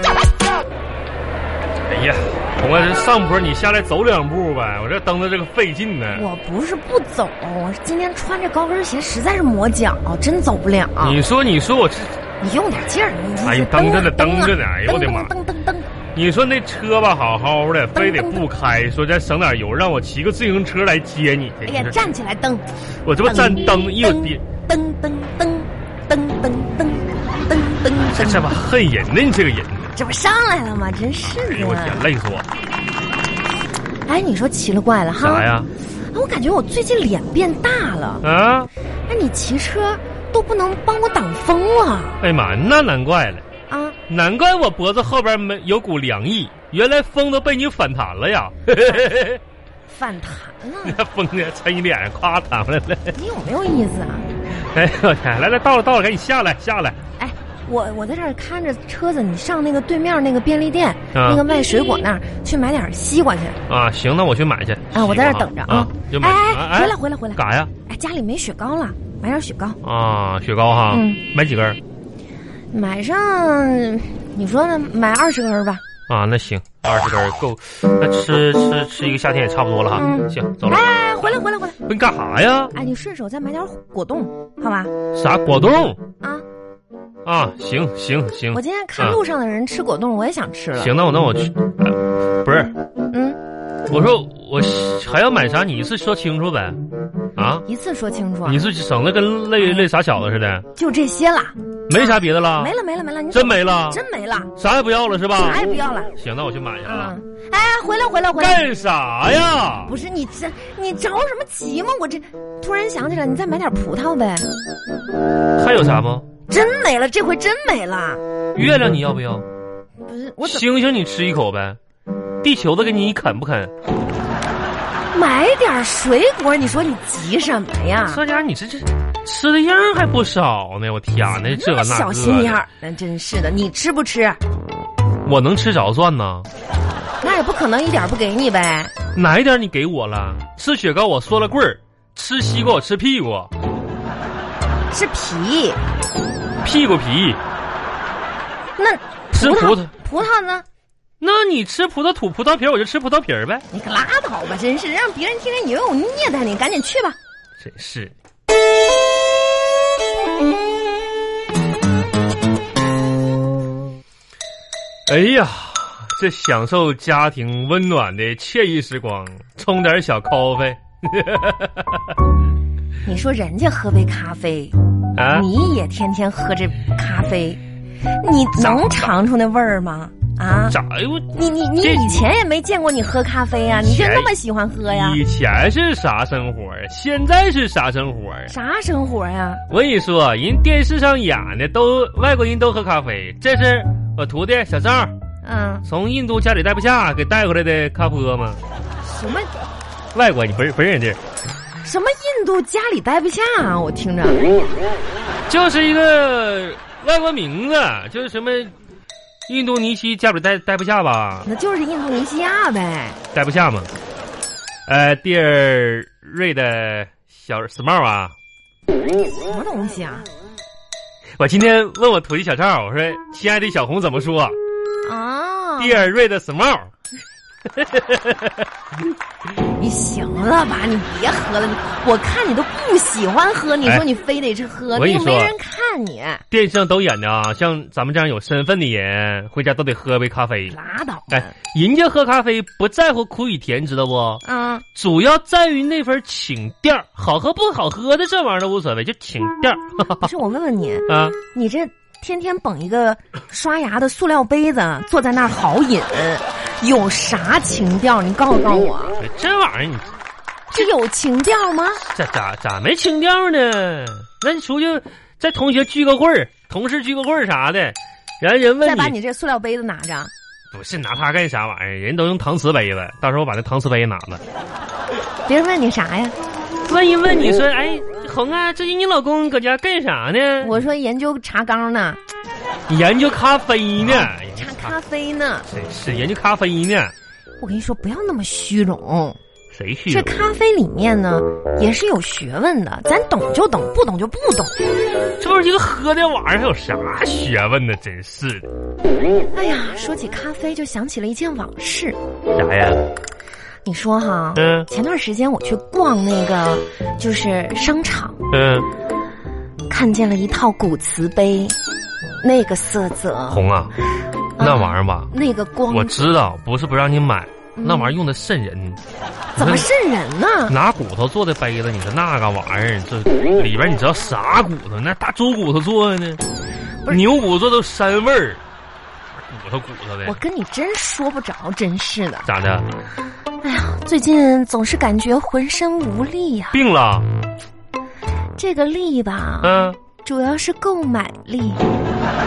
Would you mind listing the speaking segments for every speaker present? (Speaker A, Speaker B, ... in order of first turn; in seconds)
Speaker A: 1.9-6.3, 11.0-12.2, 13.4-15.3, 16.1-22.0, 23.0-24.4, 28.1-29.9, 31.2-32.5, 35.2-35.7, 38.2-38.7, 42.2-43.4, 44.1-49.4, 50.8-53.1, 54.6-57.0, 61.1-61.4, 63.7-67.7, 69.8-71.8, 76.1-80.9, 81.8-82.7, 85.1-86.0, 87.2-89.2, 90.8-92.7, 93.9-96.8, 97.3-97.6, 98.4-100.6, 101.9-102.7, 103.3-104.0, 104.5-105.6, 106.2-107.2, 108.4-109.9, 115.5-116.3, 118.5-119.5, 120.4-121.8, 122.4-123.7, 128.1-132.6, 135.2-136.5, 139.1-143.5, 146.6-147.4, 149.3-149.9, 151.2-153.6, 157.6-158.1, 165.1-172.1, 175.2-175.5, 178.6-179.2, 180.7-182.2, 183.8-184.3, 184.9-188.5, 189.7-195.1, 195.8-198.6, 200.1-201.2, 205.5-208.7, 209.5-211.5, 213.3-213.9, 214.9-218.3, 221.4-224.6, 225.8-226.9, 227.7-228.6, 234.9-235.5, 236.5-240.8, 241.3-244.4, 244.9-250.3, 251.1-251.4, 259.2-260.1, 262.1-269.1, 270.7-274.4, 276.8-280.7, 282.9-284.9, 285.7-287.1, 289.7-290.4, 295.4-298.6, 302.5-303.1, 304.5-304.9, 308.5-308.9, 313.5-313.9, 314.6-315.3, 315.9-319.0, 319.6-319.9, 320.7-326.4, 327.1-328.6, 329.3-330.4, 332.4-332.9, 336.7-337.3, 339.6-340.0
Speaker B: 6.1-11.2, 12.4-15.9, 17.9-18.4, 21.6-22.6, 23.2-28.6, 29.9-32.0, 34.1-35.5, 36.1-38.2, 39.1-42.2, 43.7-44.0, 49.9-51.0, 53.1-54.3, 57.2-63.6, 64.9-69.8, 70.9-71.2, 72.7-75.8, 79.9-81.8, 82.7-84.9, 88.5-90.9, 93.1-93.4, 97.6-98.6, 99.6-99.9, 100.8-104.5, 105.3-106.1, 106.9-108.6, 109.8-114.5, 116.5-118.2, 120.0-120.7, 125.1-128.2, 131.3-134.4, 137.2-138.9, 144.9-145.8, 148.8-150.7, 153.7-157.2, 173.0-174.7, 175.3-177.6, 178.2-180.8, 181.3-185.2, 188.5-189.6, 195.4-195.8, 199.0-199.5, 201.8-204.5, 211.4-213.2, 219.2-220.3, 225.0-226.1, 229.6-236.4, 240.7-241.5, 244.4-244.8, 250.2-259.2, 260.7-262.0, 268.8-270.3, 275.5-276.4, 280.6-282.2, 284.0-285.7, 287.6-289.4, 290.1-294.7, 299.5-302.2, 303.8-308.4, 309.9-311.8, 312.4-313.6, 314.6-316.2, 317.8-318.1, 319.6-320.7, 330.2-332.5, 333.6-336.8, 338.6-341.8